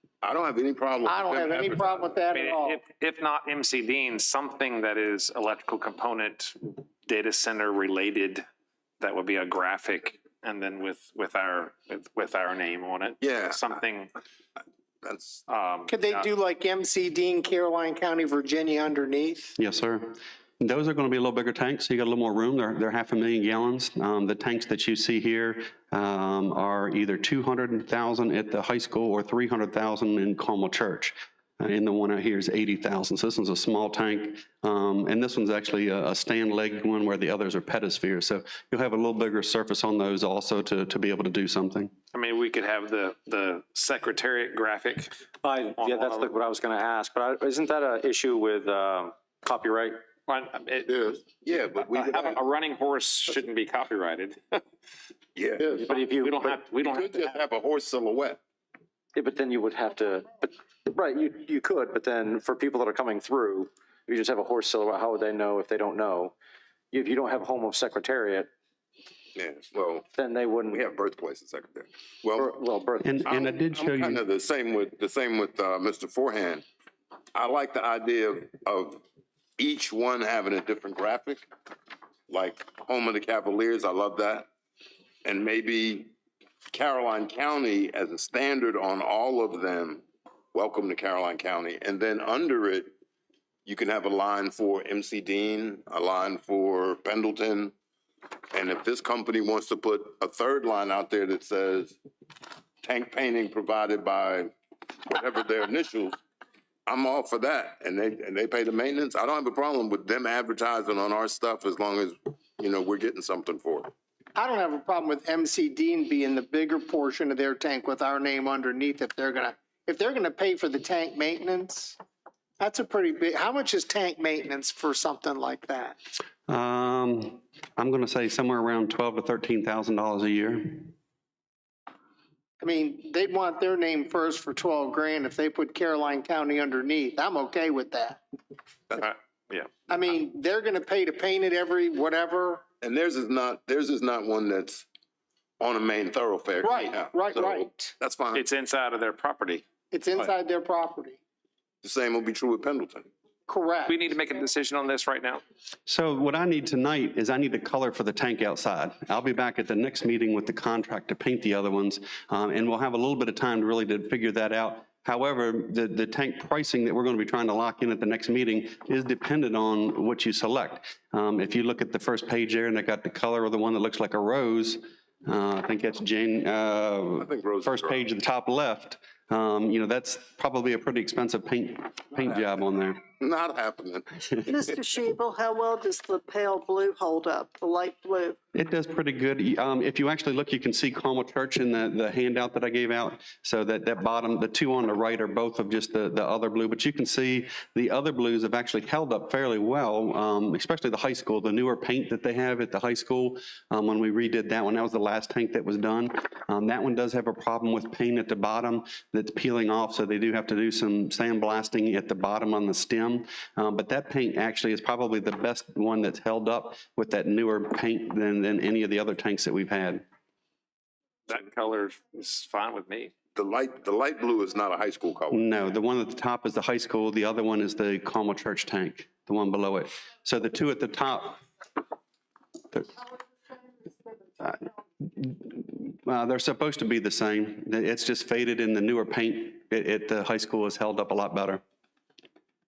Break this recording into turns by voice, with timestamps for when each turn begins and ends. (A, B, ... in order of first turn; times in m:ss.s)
0:00.2-0:02.2 A
0:01.0-0:02.8 B
0:02.3-0:08.4 C
0:09.0-0:14.1 C
0:13.2-0:13.8 A
0:15.0-0:15.4 A
0:15.5-0:16.2 C
0:15.9-0:19.5 B
0:19.6-0:41.9 D
0:42.1-0:45.2 C
0:45.4-0:50.0 E
0:45.7-0:46.4 C
0:50.3-0:51.0 C
0:50.9-0:52.4 A
0:51.8-0:54.6 C
0:55.4-0:55.9 A
0:55.7-0:56.6 E
0:55.8-0:57.4 C
0:56.8-0:58.4 A
0:59.2-1:06.3 E
1:06.9-1:08.5 E
1:09.3-1:10.1 A
1:10.1-1:10.8 E
1:10.7-1:12.5 A
1:12.4-1:13.4 E
1:13.0-1:14.2 D
1:13.3-1:16.6 A
1:17.3-1:19.0 A
1:19.6-1:21.5 A
1:22.3-1:24.5 A
1:25.2-1:26.1 A
1:26.7-1:32.9 A
1:33.7-1:37.7 A
1:38.5-1:42.0 A
1:42.8-1:44.5 A
1:45.1-1:46.2 A
1:46.9-1:53.9 A
1:54.3-2:02.0 B
2:02.6-2:06.0 B
2:06.5-2:10.9 D
2:12.6-2:18.2 B
2:19.0-2:19.7 C
2:19.9-2:22.6 B
2:22.8-2:24.8 A
2:25.6-2:28.4 A
2:26.6-2:27.9 B
2:28.3-2:29.6 C
2:29.9-2:31.2 B
2:31.8-2:33.1 A
2:33.5-2:34.0 B
2:33.9-2:35.4 C
2:35.9-3:03.0 D
2:57.2-2:58.0 A
3:03.2-3:04.5 A
3:04.4-3:08.4 F
3:08.5-3:40.0 D
3:41.3-3:43.1 C
3:43.3-3:45.4 A
3:45.3-3:51.4 D
3:54.4-4:01.6 D